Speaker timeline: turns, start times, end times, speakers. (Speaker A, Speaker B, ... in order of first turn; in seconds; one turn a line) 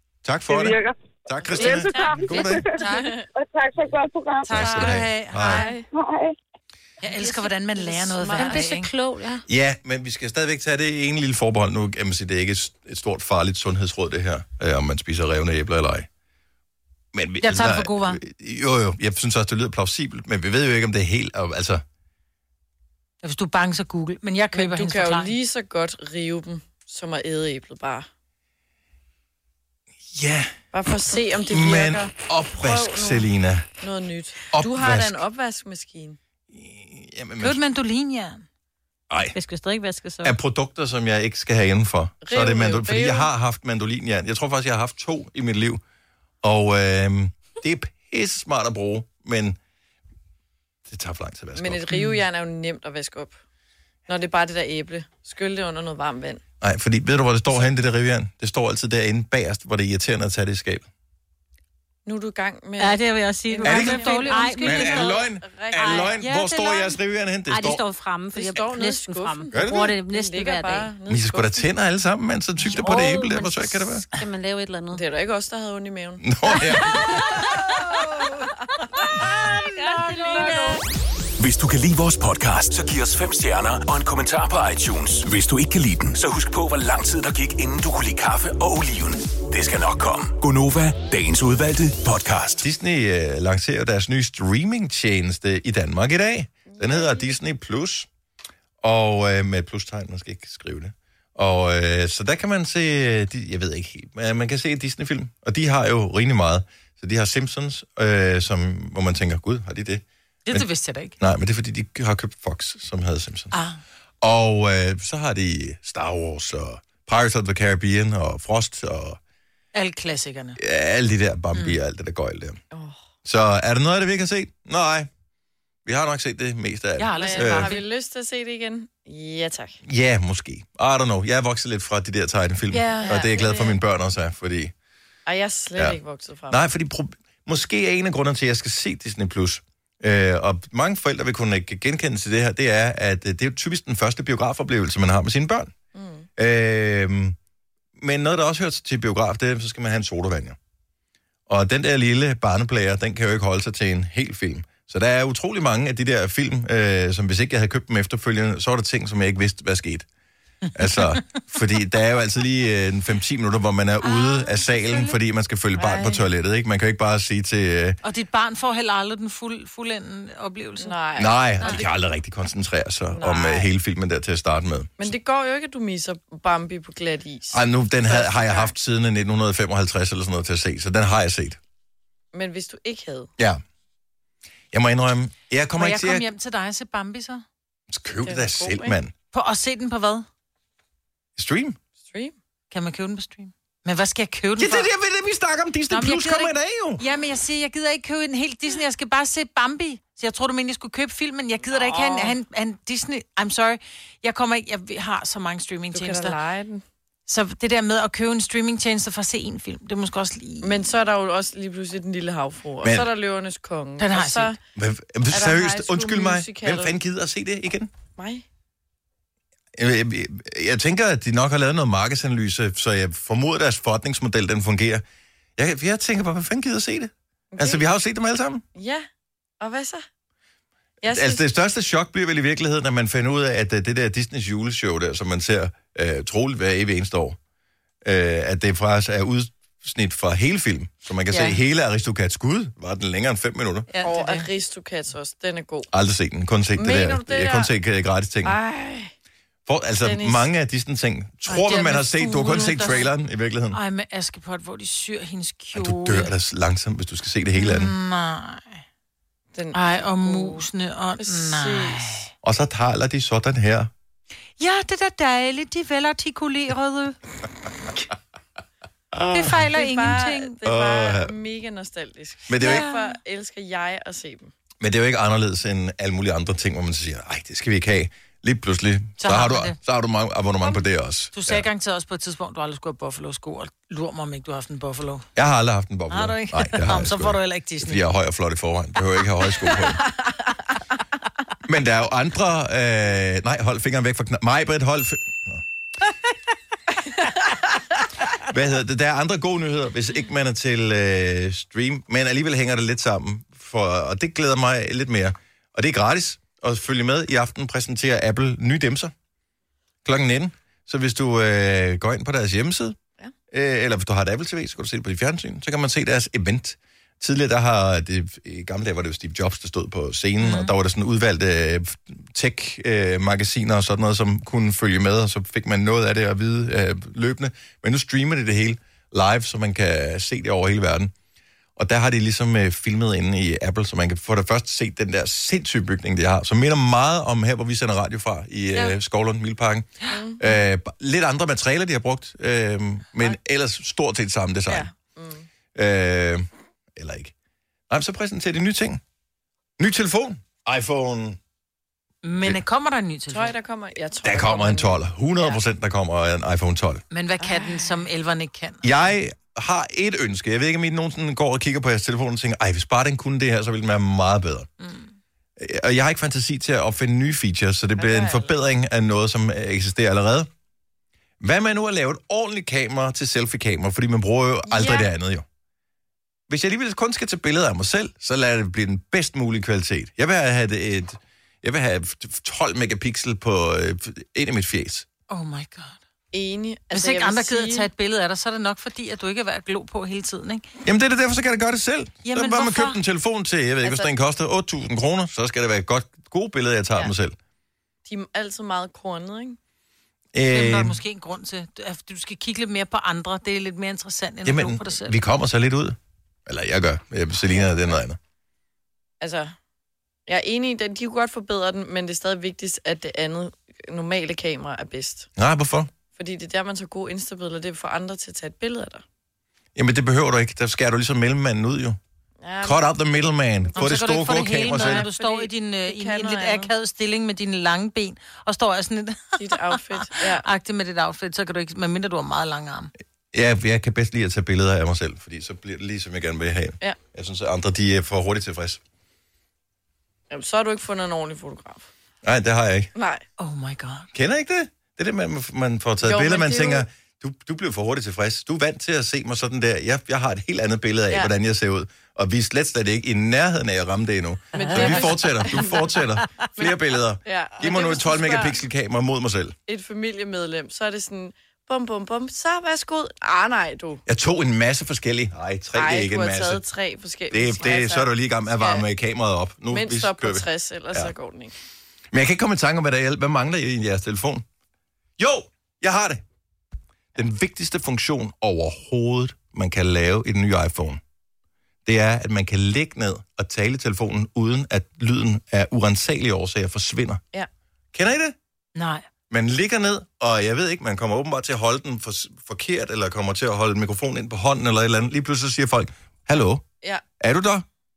Speaker A: 0.2-2.6
Speaker B: 0.5-0.9
Speaker C: 1.5-1.7
Speaker B: 1.5-2.8
Speaker D: 1.6-3.2
Speaker C: 2.8-3.2
Speaker B: 3.3-4.8
Speaker D: 4.4-5.7
Speaker A: 4.5-5.6
Speaker C: 5.4-5.9
Speaker B: 5.9-6.3
Speaker D: 7.0-8.9
Speaker C: 7.0-8.7
Speaker E: 8.3-9.4
Speaker A: 9.5-16.1
Speaker A: 17.1-21.8
Speaker D: 17.4-18.2
Speaker D: 23.2-25.3
Speaker C: 24.5-28.1
Speaker A: 30.1-30.5
Speaker C: 30.7-33.3
Speaker A: 31.5-33.7
Speaker C: 33.8-36.2
Speaker A: 34.5-35.2
Speaker A: 36.5-37.6
Speaker D: 37.4-38.4
Speaker A: 39.1-39.4
Speaker E: 39.3-40.3
Speaker A: 40.2-45.8
Speaker C: 42.2-43.3
Speaker A: 46.4-49.6
Speaker A: 50.9-51.9
Speaker C: 51.5-53.4
Speaker C: 54.1-56.4
Speaker A: 56.6-60.9
Speaker C: 62.0-66.2
Speaker E: 62.8-65.2
Speaker A: 63.6-64.1
Speaker D: 63.9-64.9
Speaker A: 64.6-67.8
Speaker E: 65.8-66.1
Speaker D: 66.2-67.0
Speaker E: 67.5-70.9
Speaker C: 68.3-71.7
Speaker A: 69.5-69.9
Speaker A: 71.1-74.0
Speaker E: 72.7-75.0
Speaker C: 74.9-78.5
Speaker A: 76.2-77.2
Speaker E: 77.1-77.5
Speaker C: 79.2-80.7
Speaker D: 79.2-80.8
Speaker E: 79.7-80.8
Speaker F: 81.4-92.7
Speaker A: 92.6-98.1
Speaker C: 96.7-97.3
Speaker A: 98.8-110.7
Speaker D: 110.4-111.1
Speaker A: 111.2-113.5
Speaker D: 113.5-113.8
Speaker A: 114.2-119.2
Speaker D: 119.7-120.6
Speaker A: 120.6-122.6
Speaker C: 122.7-123.0
Speaker A: 123.2-125.1
Speaker A: 125.8-127.7
Speaker D: 127.0-127.8
Speaker C: 127.2-129.8
Speaker A: 129.8-134.7
Speaker D: 132.7-133.3
Speaker C: 133.0-133.8
Speaker C: 135.2-136.6
Speaker A: 135.8-145.7
Speaker C: 145.9-146.3
Speaker A: 146.4-147.3
Speaker A: 148.0-150.6
Speaker A: 151.5-160.1
Speaker A: 160.7-168.0
Speaker D: 164.1-165.1
Speaker C: 165.8-166.2
Speaker D: 168.0-171.0
Speaker C: 170.8-171.8
Speaker A: 171.2-175.0
Speaker C: 173.1-173.7
Speaker C: 175.0-178.7
Speaker A: 177.5-181.6
Speaker C: 182.3-183.3
Speaker A: 184.7-186.2
Speaker D: 185.8-187.4
Speaker A: 187.9-189.1
Speaker C: 188.2-189.0
Speaker D: 189.3-190.3
Speaker A: 191.3-191.8
Speaker C: 192.0-192.3
Speaker D: 192.7-194.9
Speaker A: 194.6-197.0
Speaker D: 195.9-206.4
Speaker C: 201.8-202.3
Speaker C: 205.9-206.8
Speaker D: 207.3-210.8
Speaker C: 210.6-214.6
Speaker A: 212.8-213.1
Speaker D: 214.0-214.5
Speaker A: 214.7-217.9
Speaker C: 215.3-217.0
Speaker C: 218.2-218.4
Speaker A: 219.8-225.0
Speaker A: 225.6-228.6
Speaker C: 227.5-227.8
Speaker C: 228.7-229.1
Speaker C: 229.6-230.1
Speaker C: 231.0-231.4
Speaker A: 231.0-237.4
Speaker A: 238.0-243.9
Speaker C: 241.3-241.6
Speaker D: 243.9-244.5
Speaker C: 244.0-245.9
Speaker A: 245.9-248.6
Speaker C: 246.8-247.7
Speaker C: 248.4-249.1
Speaker A: 249.7-253.8
Speaker C: 250.0-250.5
Speaker D: 251.4-253.1
Speaker D: 253.7-256.3
Speaker A: 255.7-257.9
Speaker D: 257.5-258.8
Speaker C: 259.5-260.6
Speaker D: 259.7-262.3
Speaker C: 261.2-262.2
Speaker A: 262.4-263.9
Speaker D: 264.6-267.2
Speaker A: 269.1-269.6
Speaker D: 269.3-270.6
Speaker C: 269.7-274.5
Speaker A: 270.6-271.3
Speaker A: 272.5-272.9
Speaker D: 272.6-273.1
Speaker A: 274.8-281.6
Speaker D: 279.2-279.8
Speaker D: 281.3-285.3
Speaker A: 285.4-290.0
Speaker D: 286.1-288.0
Speaker A: 291.6-295.6
Speaker A: 298.4-309.1
Speaker A: 310.0-313.0
Speaker A: 313.5-331.1
Speaker D: 320.4-320.7
Speaker A: 331.8-344.9
Speaker C: 340.1-340.5
Speaker C: 344.7-345.5
Speaker A: 345.7-347.3
Speaker A: 347.9-349.0
Speaker A: 349.8-351.4
Speaker D: 352.2-353.5
Speaker C: 353.3-355.6
Speaker A: 354.2-357.0
Speaker D: 357.1-358.8
Speaker C: 357.4-358.0
Speaker A: 358.8-364.7
Speaker D: 364.8-365.1
Speaker A: 365.6-370.5
Speaker C: 367.9-368.5
Speaker A: 371.4-375.4
Speaker C: 374.7-375.1
Speaker A: 376.5-385.1
Speaker D: 385.3-386.0
Speaker C: 386.3-387.9
Speaker D: 386.9-390.6
Speaker A: 390.8-397.4
Speaker D: 392.2-393.0
Speaker C: 393.8-394.1
Speaker C: 398.1-399.6
Speaker A: 400.3-401.0
Speaker D: 400.5-405.2
Speaker A: 404.4-408.2
Speaker C: 409.2-409.6
Speaker C: 410.3-415.3
Speaker A: 415.4-415.9
Speaker C: 416.1-419.0
Speaker A: 419.7-422.0
Speaker C: 422.4-422.9
Speaker A: 422.6-425.1
Speaker C: 423.7-424.0
Speaker D: 423.8-432.9
Speaker C: 424.7-426.7
Speaker C: 429.4-430.4
Speaker A: 433.3-438.8
Speaker C: 440.3-441.9
Speaker A: 442.2-442.9
Speaker C: 442.9-443.2
Speaker D: 443.4-444.1
Speaker A: 444.1-459.6
Speaker C: 446.0-446.9
Speaker C: 454.5-455.9
Speaker D: 454.6-455.6
Speaker C: 456.6-458.6
Speaker C: 459.7-464.0
Speaker A: 464.1-466.6
Speaker C: 465.7-468.9
Speaker A: 467.3-471.1
Speaker C: 469.7-471.5
Speaker A: 472.1-474.4
Speaker A: 475.2-476.2
Speaker A: 477.1-481.0
Speaker A: 481.9-487.2
Speaker A: 487.9-488.3
Speaker D: 488.7-489.0
Speaker A: 489.3-496.6
Speaker A: 497.2-497.6